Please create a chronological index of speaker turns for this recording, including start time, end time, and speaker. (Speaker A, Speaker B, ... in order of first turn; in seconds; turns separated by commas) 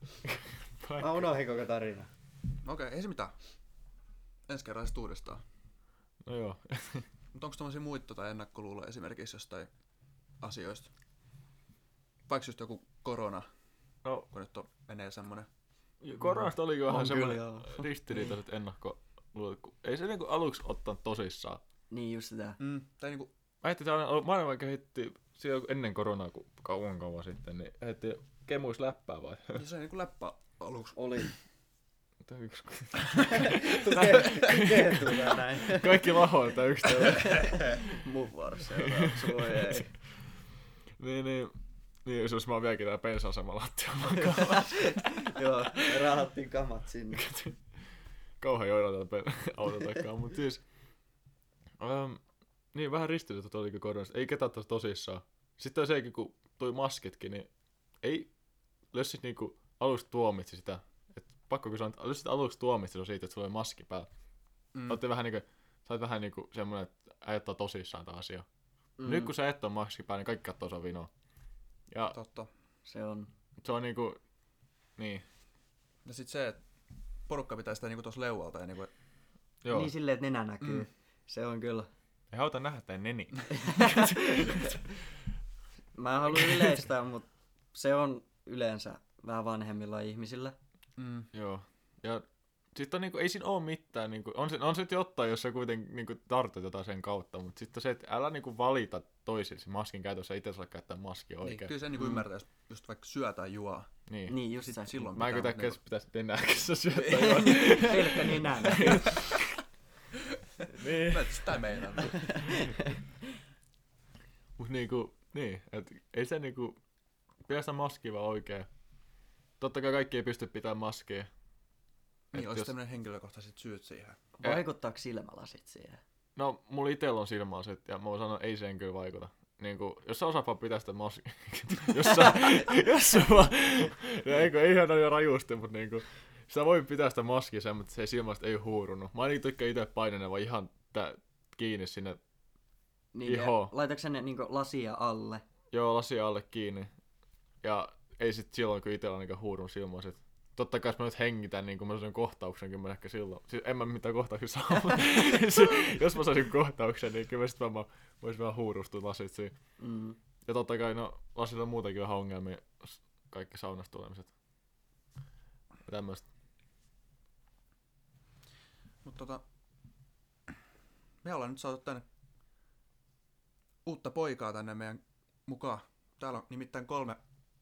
Speaker A: 0.8-1.3, Speaker B: 1.0-2.1, Speaker C: 2.6-3.3, Speaker C: 4.5-5.4, Speaker A: 6.2-7.1, Speaker C: 7.3-9.7, Speaker C: 10.4-10.9, Speaker C: 12.3-13.5, Speaker C: 14.3-15.5, Speaker A: 16.0-21.6, Speaker B: 16.2-17.9, Speaker B: 21.9-22.6, Speaker C: 22.6-23.3, Speaker A: 23.6-29.7, Speaker C: 29.6-31.3, Speaker B: 30.9-31.3, Speaker A: 32.2-37.8, Speaker B: 33.3-36.2, Speaker B: 36.8-39.9, Speaker A: 38.7-39.9, Speaker A: 41.0-45.8, Speaker B: 44.2-47.3, Speaker A: 47.1-47.6, Speaker A: 48.4-50.6, Speaker A: 51.8-52.2, Speaker A: 52.7-57.5, Speaker A: 58.0-58.3, Speaker A: 58.9-64.1, Speaker C: 64.7-65.0, Speaker A: 64.9-68.5, Speaker B: 69.0-69.3, Speaker A: 69.0-71.1, Speaker A: 71.9-72.2, Speaker C: 72.1-72.5, Speaker B: 72.9-73.3, Speaker A: 73.6-74.2, Speaker A: 75.0-75.2, Speaker C: 76.0-76.6, Speaker C: 77.3-78.9, Speaker A: 79.6-79.9, Speaker B: 79.7-81.9, Speaker A: 82.3-84.8, Speaker B: 83.5-84.8, Speaker B: 86.0-90.5, Speaker C: 91.0-91.3, Speaker A: 91.3-101.7, Speaker C: 101.4-103.9, Speaker A: 104.1-104.4, Speaker B: 104.3-105.0, Speaker C: 104.7-105.8, Speaker A: 105.1-109.6, Speaker C: 106.9-108.9, Speaker B: 107.1-109.3, Speaker C: 110.6-112.4, Speaker A: 110.7-112.7, Speaker B: 112.2-113.0, Speaker A: 114.6-116.8, Speaker A: 117.5-118.7, Speaker A: 119.6-121.3, Speaker A: 122.3-122.7, Speaker C: 122.3-124.2, Speaker B: 124.4-126.0, Speaker A: 126.4-142.2, Speaker B: 143.1-145.4, Speaker A: 143.2-143.7, Speaker A: 145.7-146.9, Speaker A: 147.6-159.5, Speaker B: 159.8-160.2, Speaker A: 160.4-164.3, Speaker A: 165.8-166.2, Speaker C: 169.0-169.4, Speaker C: 171.2-172.1, Speaker C: 173.8-177.2